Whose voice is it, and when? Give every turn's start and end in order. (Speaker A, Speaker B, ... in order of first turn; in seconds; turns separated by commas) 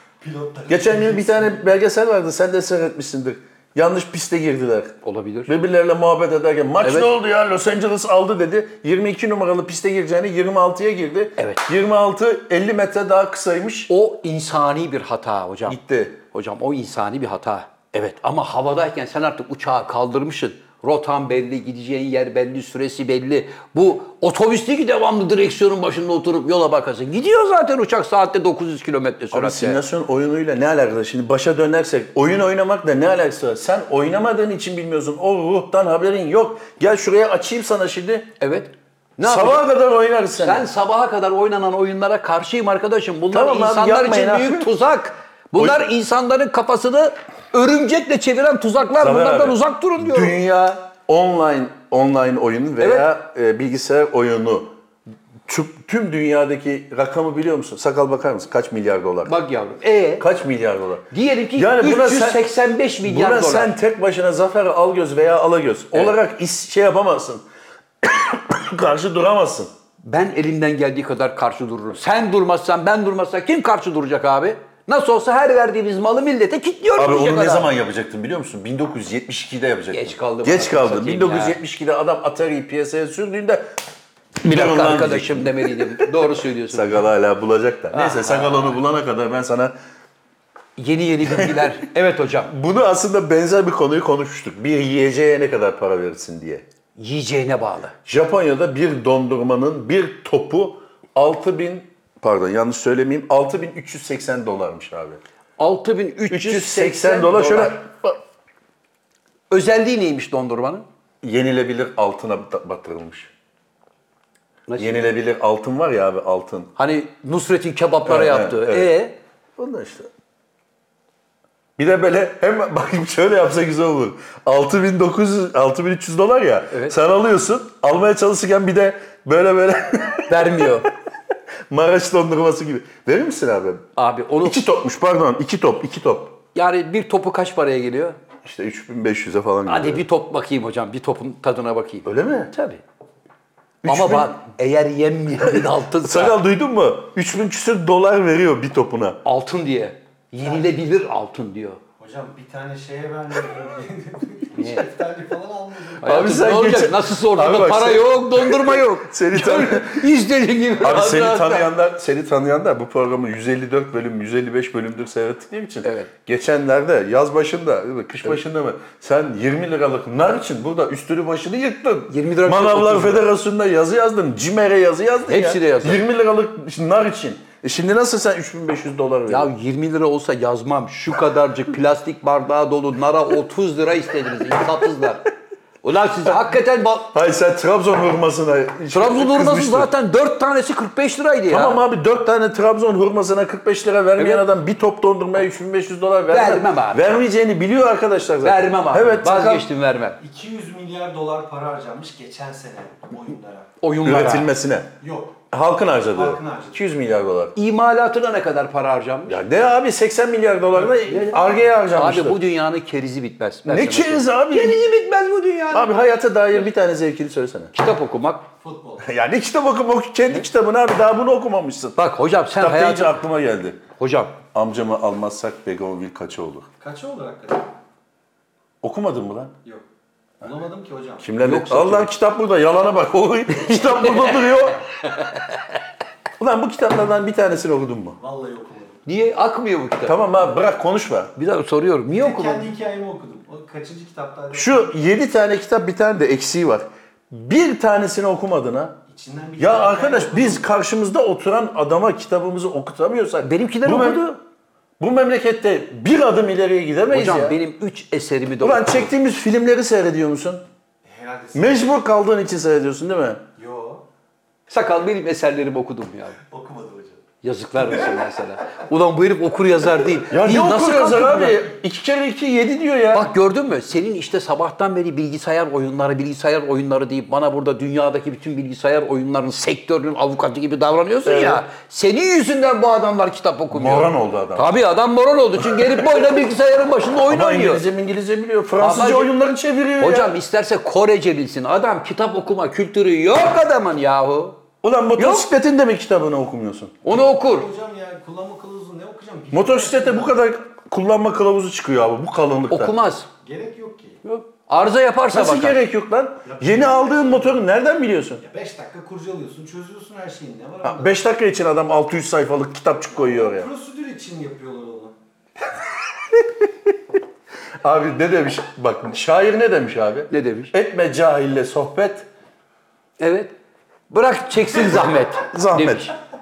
Speaker A: 0.2-1.7, Speaker B: 0.7-4.9, Speaker C: 5.0-5.5, Speaker B: 5.5-13.9, Speaker C: 6.8-7.1, Speaker C: 11.4-11.6, Speaker C: 13.9-15.8, Speaker B: 15.7-16.2, Speaker C: 16.3-29.8, Speaker B: 29.3-38.3, Speaker C: 38.4-39.6, Speaker B: 39.2-40.7, Speaker C: 40.4-50.3, Speaker B: 43.3-44.7, Speaker B: 49.0-54.7, Speaker C: 52.8-53.1, Speaker B: 55.5-59.3, Speaker C: 59.2-60.3, Speaker B: 60.2-62.5, Speaker C: 61.1-63.7, Speaker B: 63.0-67.4, Speaker B: 68.0-69.7, Speaker C: 70.0-77.7, Speaker B: 77.0-83.7, Speaker C: 79.9-81.6, Speaker C: 84.4-87.0, Speaker B: 84.4-86.1, Speaker B: 86.7-89.7, Speaker C: 87.9-88.8, Speaker C: 90.8-92.5, Speaker B: 91.2-91.7, Speaker B: 92.5-96.6, Speaker C: 97.0-98.0, Speaker B: 98.0-105.2, Speaker C: 105.6-107.8, Speaker B: 106.3-108.2, Speaker C: 109.5-110.8, Speaker B: 111.2-113.3, Speaker C: 114.7-115.1, Speaker B: 114.8-116.7, Speaker C: 116.8-119.2, Speaker B: 118.0-118.9, Speaker B: 119.6-120.1, Speaker B: 121.8-130.7, Speaker C: 126.7-127.0, Speaker C: 130.3-130.9, Speaker B: 131.7-133.8, Speaker C: 133.9-134.6, Speaker B: 134.4-136.4, Speaker C: 136.5-138.2, Speaker B: 138.4-140.0, Speaker C: 139.7-142.8, Speaker B: 142.0-142.5, Speaker B: 143.8-144.4, Speaker C: 143.8-146.4, Speaker B: 145.4-149.2, Speaker C: 149.2-151.8, Speaker A: 152.0-156.1, Speaker C: 154.6-154.8, Speaker B: 156.0-160.1, Speaker C: 156.0-161.7, Speaker B: 160.8-179.5, Speaker C: 165.8-166.1, Speaker C: 172.1-173.3, Speaker C: 175.3-176.0, Speaker C: 179.3-185.2, Speaker C: 185.8-187.1, Speaker B: 187.1-189.9, Speaker C: 188.9-191.8, Speaker B: 191.5-199.7, Speaker C: 194.2-194.4, Speaker C: 196.3-197.2, Speaker C: 198.4-200.2, Speaker A: 200.2-203.7, Speaker C: 203.8-204.5, Speaker B: 204.0-204.9, Speaker A: 205.0-205.5, Speaker B: 205.5-207.5, Speaker A: 206.1-206.9, Speaker C: 207.5-209.4, Speaker B: 209.3-212.4, Speaker A: 210.8-211.6, Speaker C: 211.1-211.4, Speaker C: 211.9-215.9, Speaker B: 213.7-214.8, Speaker B: 215.7-217.7, Speaker C: 217.7-218.4, Speaker A: 218.6-219.1, Speaker B: 219.0-222.0, Speaker C: 222.0-223.2, Speaker B: 222.6-223.8, Speaker C: 224.0-224.4, Speaker B: 224.5-226.7, Speaker A: 226.8-227.7, Speaker B: 228.8-229.5, Speaker A: 230.4-231.3, Speaker B: 231.2-234.8, Speaker C: 231.4-232.1, Speaker C: 233.6-235.7, Speaker B: 236.4-238.2, Speaker A: 238.2-239.0, Speaker C: 239.1-240.2, Speaker B: 240.0-241.3, Speaker C: 241.3-242.7, Speaker A: 242.1-244.9, Speaker B: 244.5-249.0, Speaker A: 249.1-250.7, Speaker B: 249.6-254.3, Speaker C: 253.4-254.4, Speaker B: 255.0-257.6, Speaker C: 257.1-259.1, Speaker B: 258.6-260.6, Speaker A: 261.0-261.9, Speaker B: 261.5-263.4, Speaker A: 263.6-264.0, Speaker C: 264.7-266.4, Speaker A: 266.5-267.2, Speaker C: 267.4-271.6, Speaker B: 270.3-273.3, Speaker C: 273.1-287.8, Speaker B: 281.2-281.6, Speaker B: 283.7-284.7, Speaker B: 285.6-286.1, Speaker B: 287.3-290.3, Speaker C: 288.8-289.3, Speaker C: 290.0-294.6, Speaker B: 294.8-297.0, Speaker C: 295.2-295.5, Speaker C: 297.0-297.7, Speaker A: 297.2-300.3, Speaker B: 299.5-302.9, Speaker C: 302.7-303.3, Speaker A: 303.4-304.2, Speaker C: 304.2-305.8, Speaker B: 305.3-308.4, Speaker A: 306.4-307.6, Speaker A: 308.4-311.2, Speaker B: 310.8-313.7, Speaker A: 313.1-315.1, Speaker B: 316.3-316.6, Speaker B: 317.8-322.3, Speaker C: 320.3-320.7, Speaker C: 323.2-323.5, Speaker C: 324.1-326.1, Speaker B: 325.4-326.1